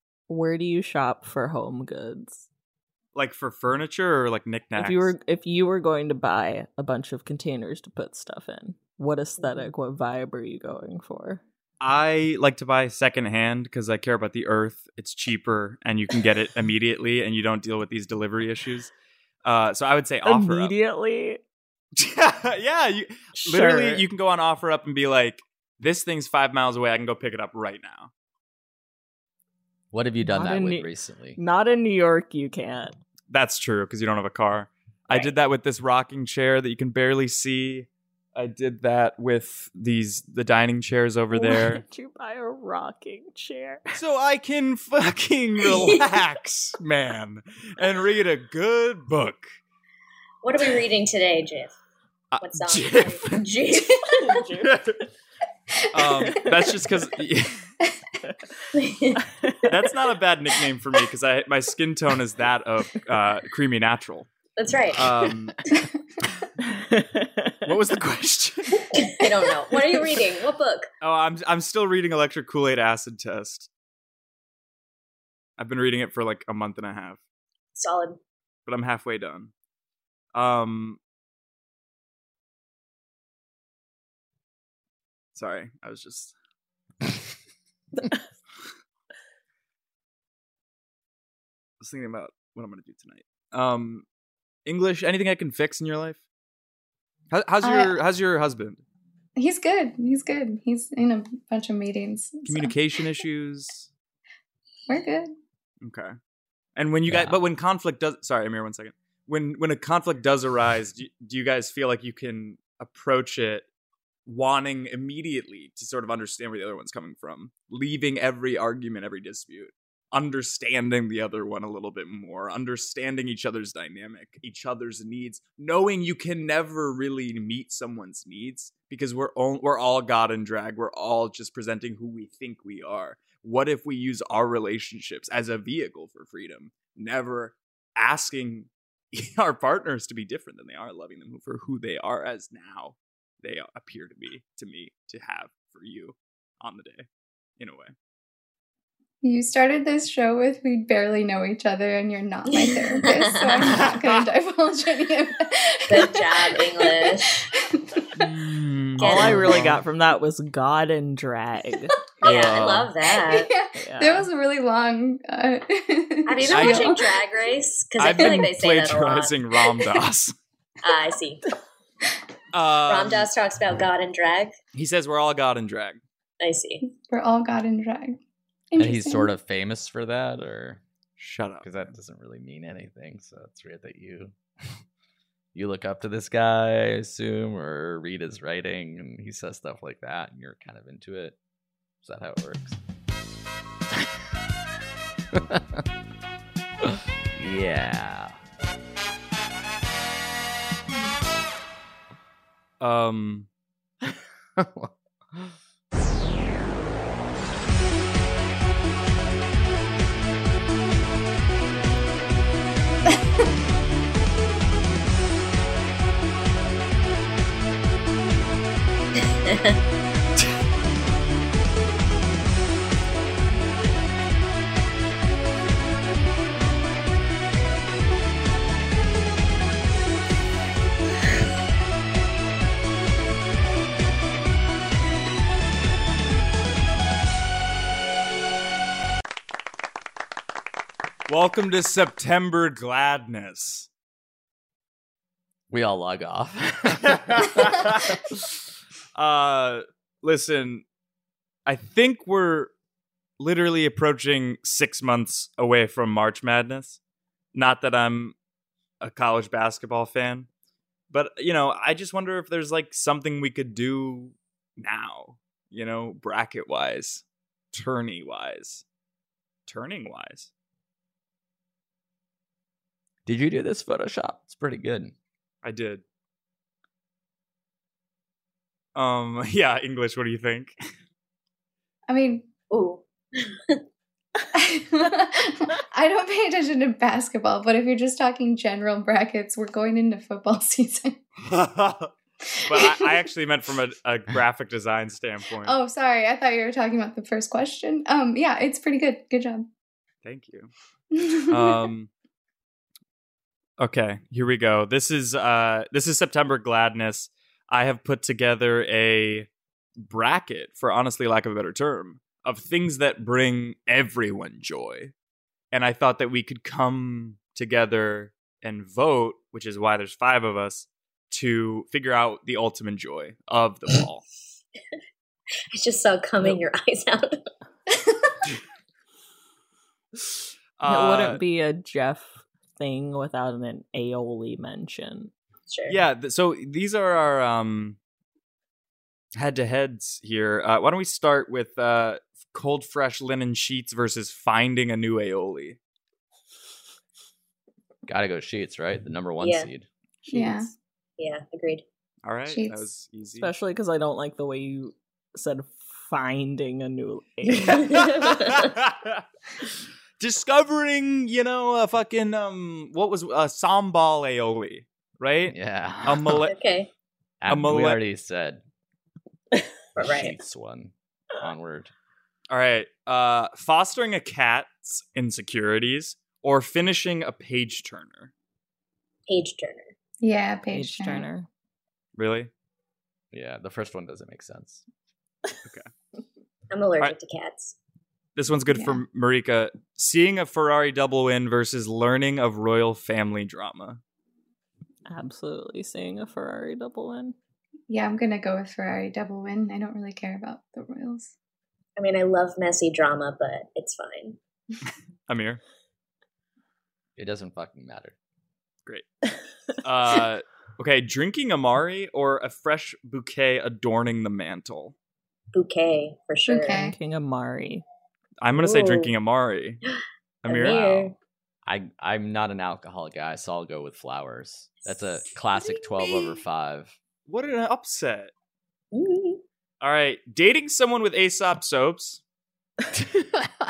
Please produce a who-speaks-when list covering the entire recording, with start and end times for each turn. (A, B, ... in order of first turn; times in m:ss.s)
0:00.3-0:02.5 A
0:03.1-0:05.1 B
0:04.8-0:11.4 A
0:09.4-0:09.7 C
0:11.8-0:18.9 B
0:19.4-0:20.7 B
0:20.2-0:21.4 A
0:22.0-0:28.1 B
0:23.3-0:24.0 A
0:29.9-0:31.4 D
0:30.2-0:33.0 A
0:33.3-0:41.8 B
0:41.3-0:43.8 A
0:43.9-0:49.5 B
0:45.6-0:46.1 C
0:50.4-0:51.7 C
0:52.3-0:53.5 B
0:52.4-0:54.3 C
0:54.2-0:54.8 A
0:54.6-0:55.0 B
0:55.9-0:57.6 B
0:56.0-0:56.6 E
0:58.7-0:59.2 C
0:59.2-0:59.7 A
0:59.7-1:04.3 B
1:04.6-1:05.2 C
1:04.9-1:05.5 B
1:06.6-1:07.6 A
1:07.6-1:09.0 B
1:09.0-1:10.9 C
1:11.0-1:13.7 B
1:15.6-1:17.2 B
1:17.8-1:18.2 C
1:18.7-1:19.5 B
1:20.3-1:21.0 B
1:25.3-1:26.3 B
1:31.8-1:34.0 B
1:34.6-1:36.2 B
1:37.3-1:38.8 B
1:37.6-1:38.0 E
1:39.4-1:43.1 E
1:42.4-1:43.9 B
1:44.9-1:45.3 E
1:45.8-1:46.1 B
1:46.8-1:53.7 B
1:47.1-1:47.4 D
1:54.2-2:27.1 B
2:27.6-2:27.9 B
2:29.2-2:38.1 E
2:32.5-2:33.8 C
2:33.6-2:34.2 B
2:35.9-2:37.5 C
2:38.2-2:39.8 B
2:39.0-2:42.0 A
2:39.0-2:39.6 C
2:42.2-2:42.9 B
2:42.2-2:43.5 C
2:43.1-2:47.2 E
2:43.8-2:44.3 A
2:46.2-2:50.0 C
2:46.4-2:47.0 B
2:48.0-2:50.3 B
2:50.8-2:51.4 C
2:52.5-2:53.3 B
2:52.8-2:54.6 C
2:54.7-2:56.0 B
2:56.4-2:56.8 C
2:56.8-2:58.2 E
2:58.7-2:59.3 E
2:58.8-3:00.8 D
3:01.2-3:01.7 B
3:01.6-3:04.3 D
3:05.5-3:11.4 D
3:12.0-3:12.8 D
3:15.3-3:15.8 D
3:16.8-3:18.4 D
3:22.8-3:23.5 B
3:24.0-3:25.5 D
3:39.4-3:39.8 C
4:01.3-4:03.9 B
4:05.7-4:07.5 D
4:07.0-4:08.0 B
4:09.1-4:10.8 B
4:11.6-4:12.7 B
4:13.4-4:17.0 B
4:17.5-4:18.4 B
4:19.0-4:20.5 B
4:21.1-4:28.8 B
4:29.7-4:30.5 B
4:33.2-4:35.1 D
4:35.6-4:36.0 B
4:38.9-4:40.8 B
4:42.1-4:42.5 E
4:42.7-4:43.8 C
4:44.5-4:51.2 E
4:51.4-4:52.1 B
4:52.7-4:55.8 B
4:52.7-4:53.2 E
4:55.6-4:59.7 E
5:00.2-5:00.7 B
5:01.1-5:01.9 E
5:01.5-5:02.1 B
5:03.8-5:09.5 B
5:10.0-5:15.1 B
5:15.7-5:24.2 B
5:25.7-5:27.4 C
5:30.8-5:31.4 B
5:30.8-5:35.3 A
5:35.7-5:36.0 C
5:35.9-5:38.0 B
5:39.3-5:45.8 B
5:48.0-5:49.9 D
5:49.4-5:49.7 C
5:50.2-5:50.7 A
5:50.3-5:50.7 E
5:51.2-5:51.8 C
5:52.2-5:53.5 B
5:52.4-5:52.8 E
5:53.4-5:58.1 A
5:57.6-5:58.7 C
5:57.7-5:59.2 B
6:00.2-6:06.5 B
6:05.5-6:06.5 D
6:06.5-6:06.9 C
6:07.4-6:08.6 D
6:07.5-6:08.0 B
6:10.0-6:10.4 C
6:10.0-6:11.9 D
6:12.5-6:18.3 B
6:19.3-6:19.9 C
6:20.2-6:21.3 E
6:20.7-6:21.5 A
6:22.2-6:22.5 B
6:23.3-6:24.8 D
6:26.7-6:27.8 C
6:28.4-6:34.0 B
6:28.7-6:29.0 E
6:35.1-6:37.4 A
6:37.9-6:41.3 E
6:42.0-6:44.4 C
6:45.3-6:45.6 B
6:47.2-6:48.1 D
6:49.8-6:54.9 B
6:55.5-6:56.8 C
6:56.4-6:57.0 E
6:56.7-6:57.8 A
6:58.4-6:59.8 B
6:58.5-6:59.1 C
6:59.9-7:01.1 C
7:00.4-7:01.1 B
7:01.6-7:06.9 D
7:04.8-7:05.3 C
7:07.3-7:08.3 B
7:08.9-7:09.4 C
7:09.8-7:12.2 B
7:13.0-7:13.5 D